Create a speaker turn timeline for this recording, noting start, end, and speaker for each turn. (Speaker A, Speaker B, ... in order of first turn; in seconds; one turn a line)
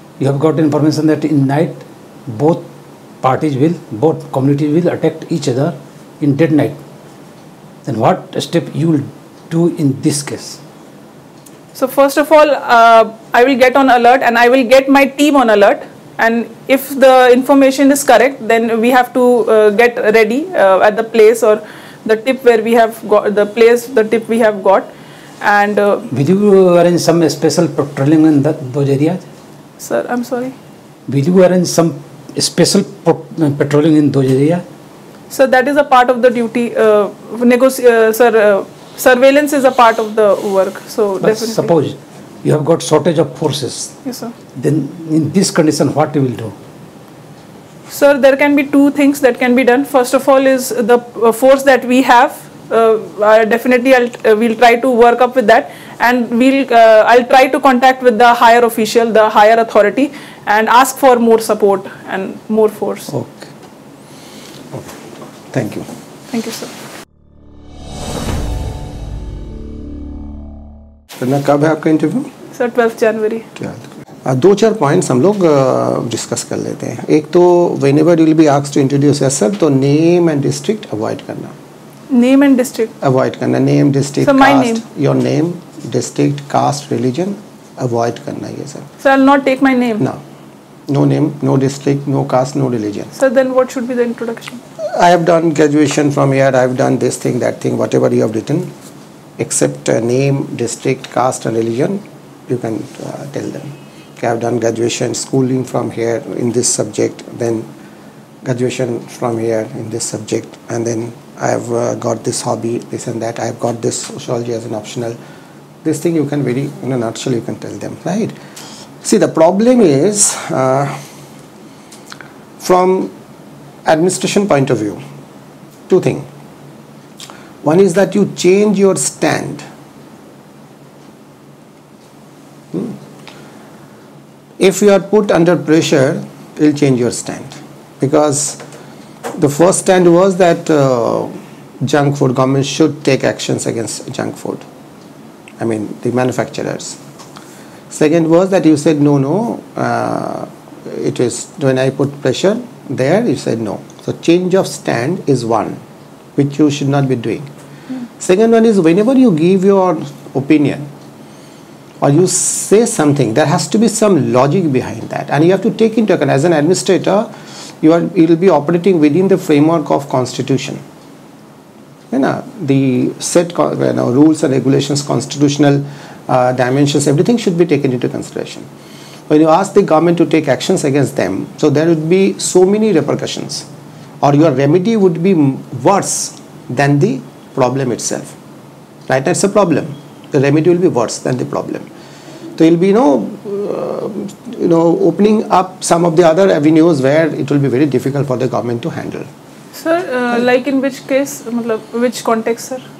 Speaker A: 0.2-2.6
Speaker A: 3.2-6.8
Speaker A: 7.8-10.6
Speaker B: 11.7-24.9
Speaker B: 25.4-26.1
Speaker A: 26.1-29.2
Speaker B: 29.8-30.5
Speaker A: 31.1-34.6
Speaker B: 35.3-41.7
Speaker A: 41.2-43.9
Speaker B: 44.0-44.3
Speaker A: 44.5-46.5
Speaker B: 47.9-63.1
Speaker C: 65.5-65.9
Speaker B: 66.3-66.7
Speaker C: 71.2-72.3
Speaker B: 72.5-73.5
Speaker C: 73.6-81.5
Speaker B: 82.1-82.9
Speaker C: 83.0-88.9
Speaker B: 84.2-84.8
Speaker B: 89.0-90.0
Speaker C: 90.9-93.1
Speaker B: 93.1-94.6
Speaker C: 94.8-98.7
Speaker C: 99.4-107.7
Speaker C: 108.4-115.2
Speaker C: 115.8-118.3
Speaker C: 119.0-121.0
Speaker C: 122.6-123.1
Speaker C: 123.8-125.0
Speaker C: 125.9-126.3
Speaker C: 127.6-129.6
Speaker C: 132.7-133.0
Speaker C: 134.6-138.6
Speaker C: 139.3-144.6
Speaker C: 145.6-147.0
Speaker C: 147.9-155.8
Speaker C: 156.3-157.5
Speaker C: 158.2-160.9
Speaker C: 162.0-167.3
Speaker C: 167.8-170.8
Speaker C: 172.1-178.7
Speaker C: 179.3-183.7
Speaker C: 184.2-188.3
Speaker C: 189.1-191.9
Speaker C: 192.6-199.3
Speaker B: 199.7-202.8